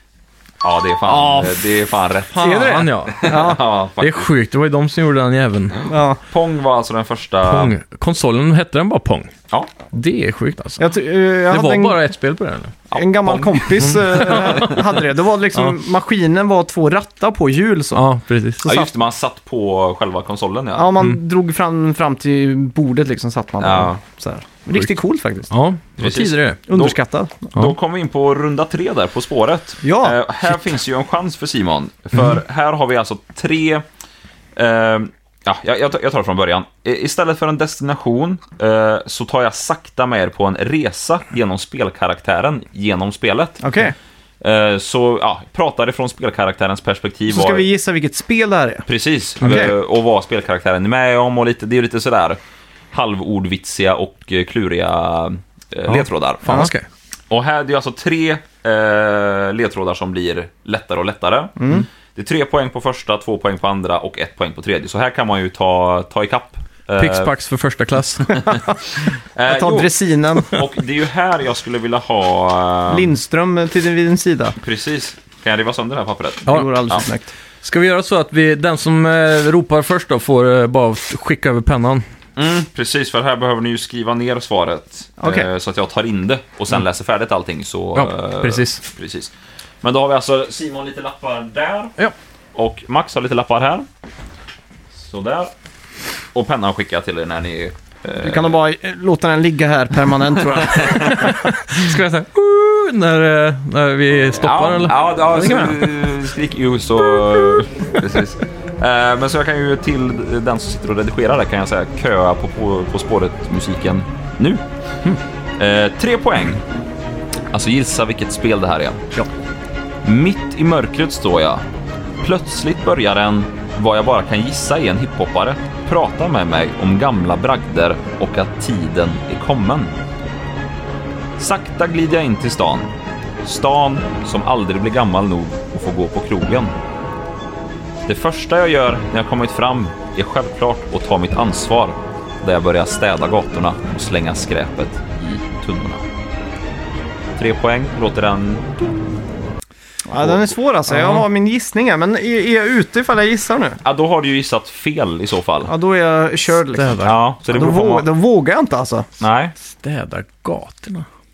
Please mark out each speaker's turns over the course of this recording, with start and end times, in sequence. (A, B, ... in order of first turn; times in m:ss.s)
0:00.6-0:04.3 A
0:01.1-0:01.6 B
0:02.3-0:05.8 C
0:02.4-0:03.6 B
0:05.8-0:07.7 A
0:05.8-0:06.2 B
0:07.4-0:09.3 C
0:09.9-0:10.8 C
0:10.8-0:12.0 B
0:11.5-0:12.8 C
0:12.9-0:14.8 A
0:12.9-0:18.0 B
0:13.7-0:14.8 C
0:17.9-0:18.6 C
0:18.6-0:18.9 B
0:18.6-0:20.9 A
0:20.8-0:25.5 B
0:23.6-0:24.0 A
0:25.5-0:26.6 C
0:26.0-0:27.0 A
0:26.6-0:27.5 B
0:27.5-0:33.8 A
0:29.8-0:30.2 B
0:34.5-0:43.6 A
0:43.6-0:43.9 B
0:44.4-0:47.7 A
0:47.3-0:48.9 B
0:48.8-0:52.4 A
0:49.4-0:49.7 B
0:52.9-0:56.7 A
0:55.9-0:56.8 C
0:56.4-0:56.7 B
0:57.3-1:07.3 A
1:01.6-1:01.8 B
1:07.0-1:08.5 C
1:08.3-1:08.6 A
1:08.4-1:08.8 B
1:09.3-1:13.1 A
1:09.4-1:10.6 B
1:12.9-1:14.6 B
1:14.6-1:17.0 A
1:16.5-1:17.3 B
1:17.6-1:22.0 C
1:22.4-1:31.9 A
1:25.2-1:25.5 B
1:28.0-1:28.8 C
1:32.5-1:33.9 A
1:34.9-1:35.5 A
1:36.3-1:38.6 A
1:38.2-1:41.5 B
1:40.6-1:41.3 A
1:41.0-1:45.8 C
1:44.3-1:54.6 A
1:45.4-1:45.7 B
1:55.6-1:56.6 A
1:57.5-1:59.0 A
2:00.0-2:01.6 A
2:02.2-2:09.9 A
2:11.4-2:12.9 A
2:13.4-2:16.7 A
2:18.0-2:26.0 A
2:27.4-2:29.2 A
2:30.0-2:33.8 B
2:30.2-2:30.5 A
2:30.9-2:31.2 C
2:33.8-2:35.7 A
2:35.6-2:39.1 B
2:36.7-2:37.1 C
2:37.0-2:38.1 A
2:39.2-2:39.5 A
2:39.6-2:41.0 C